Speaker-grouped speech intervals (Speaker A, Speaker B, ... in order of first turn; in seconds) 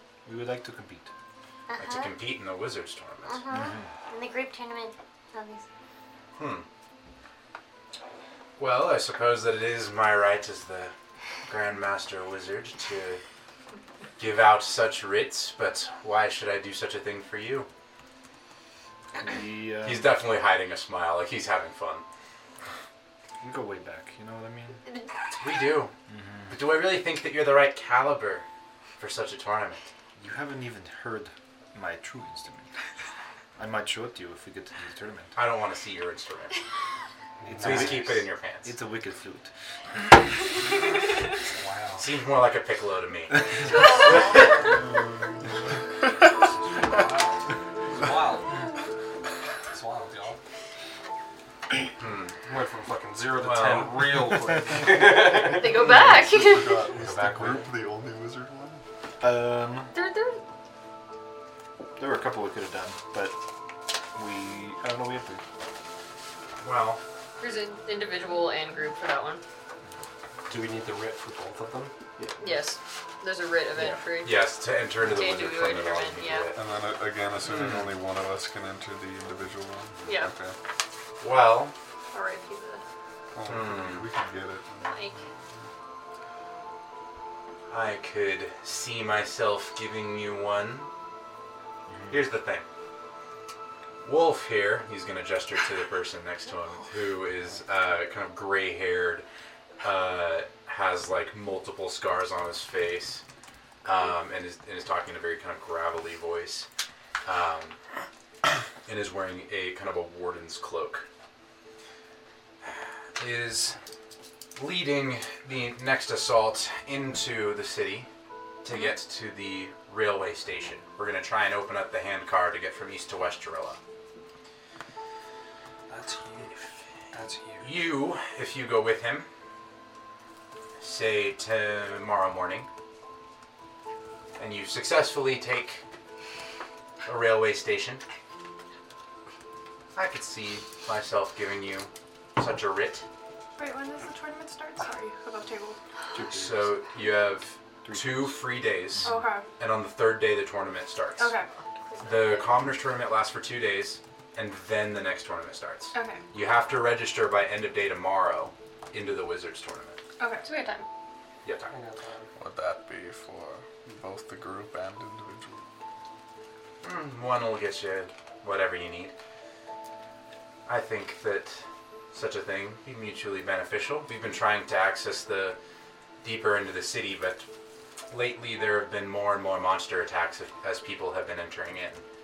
Speaker A: 0.2-1.1, 3.5-3.9, 19.2-20.2, 23.4-24.8, 26.1-26.6, 30.2-32.7, 33.6-35.4, 37.5-39.5, 59.2-59.9, 62.0-63.4, 64.1-65.4, 72.2-72.5, 91.9-92.2, 146.1-146.8, 147.8-149.2
Speaker B: 1.7-2.2, 3.2-5.7
Speaker C: 1.8-3.4, 6.4-6.7, 8.6-10.9, 11.5-13.2, 14.2-17.7, 19.8-22.1, 25.4-25.9, 26.5-28.4, 29.0-29.9, 35.4-36.6, 37.6-38.8, 42.0-43.8, 52.0-52.4, 53.4-54.0, 66.6-67.0, 73.8-76.6, 77.4-77.9, 81.2-81.7, 83.5-84.1, 87.7-90.9, 92.1-92.7, 94.0-99.2, 99.8-103.2, 103.8-106.7, 107.2-107.8, 108.9-111.1, 113.2-113.8, 114.6-118.1, 118.6-123.8, 127.6-129.3, 130.8-132.7, 134.4-135.8, 137.1-138.0, 139.9-143.1, 146.3-151.3, 152.0-160.0, 161.4-161.7, 166.8-169.1, 170.7-175.6, 176.2-177.5, 178.1-182.0
Speaker D: 37.4-38.2, 41.5-42.1, 46.2-48.6, 49.7-50.4, 52.5-55.9, 57.0-57.6, 70.5-71.9, 125.9-127.9, 161.7-162.3
Speaker E: 55.1-56.9, 59.9-60.4, 67.4-69.4, 72.4-76.5, 80.0-80.3, 82.1-82.8, 84.8-85.3, 151.9-152.7, 160.4-160.9
Speaker F: 55.7-58.8, 76.5-80.6, 83.3-85.2, 162.4-165.6
Speaker G: 143.6-145.8, 149.0-149.5, 151.2-151.5, 155.9-156.2, 160.2-160.5